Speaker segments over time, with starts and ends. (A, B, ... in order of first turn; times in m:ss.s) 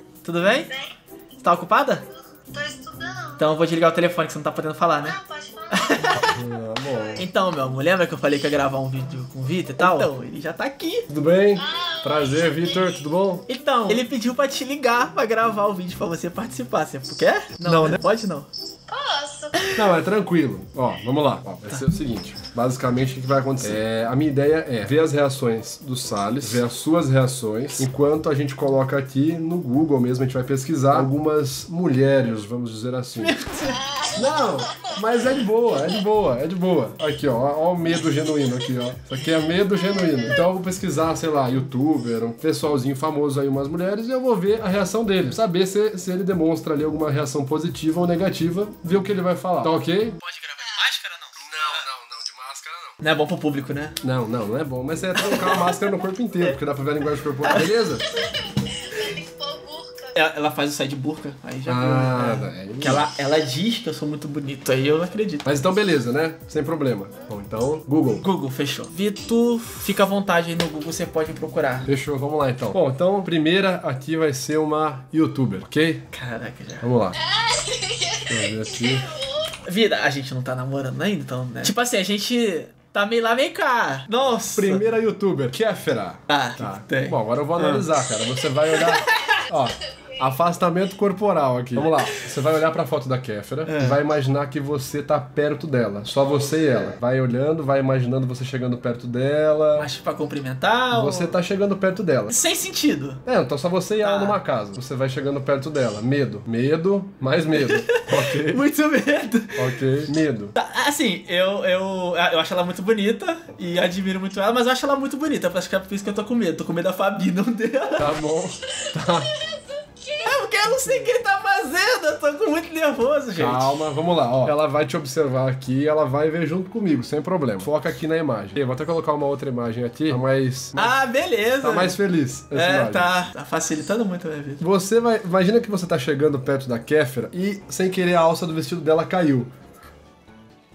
0:00.2-0:00.8 A
0:01.4-0:02.0 A
0:02.5-0:03.3 B
0:03.4-0:06.4 A
0:05.2-0:06.2 B
0:06.2-0:07.2 C
0:07.2-0:11.1 A
0:11.1-0:13.5 C
0:13.5-0:18.5 A
0:18.9-0:19.5 B
0:19.7-0:33.4 C
0:33.2-0:33.9 A
0:34.1-0:50.2 C
0:50.2-0:51.8 A
0:51.4-0:53.0 C
0:53.0-0:54.0 A
0:54.0-0:58.2 C
0:55.2-0:55.7 A
0:58.9-1:00.1 B
1:00.1-1:05.4 A
1:01.7-1:03.0 C
1:05.4-1:08.2 C
1:08.2-1:11.9 A
1:11.9-1:16.1 C
1:16.1-1:16.9 A
1:16.8-1:17.2 C
1:17.3-1:18.3 B
1:18.2-1:19.2 C
1:19.6-1:24.8 A
1:24.5-1:39.9 C
1:26.3-1:27.9 A
1:28.7-1:29.4 A
1:31.8-1:32.1 A
1:33.7-1:34.0 A
1:39.8-1:41.4 A
1:40.9-1:42.4 C
1:42.3-1:43.2 A
1:43.2-1:48.7 C
1:44.0-1:44.4 A
1:47.5-1:49.8 A
1:49.6-1:50.5 C
1:50.6-1:58.2 A
1:58.0-1:59.4 C
1:59.5-2:00.1 B
2:00.1-2:03.7 A
2:03.4-2:11.0 C
2:10.8-2:12.0 A
2:11.6-2:13.1 C
2:12.5-2:14.6 A
2:14.6-2:19.5 C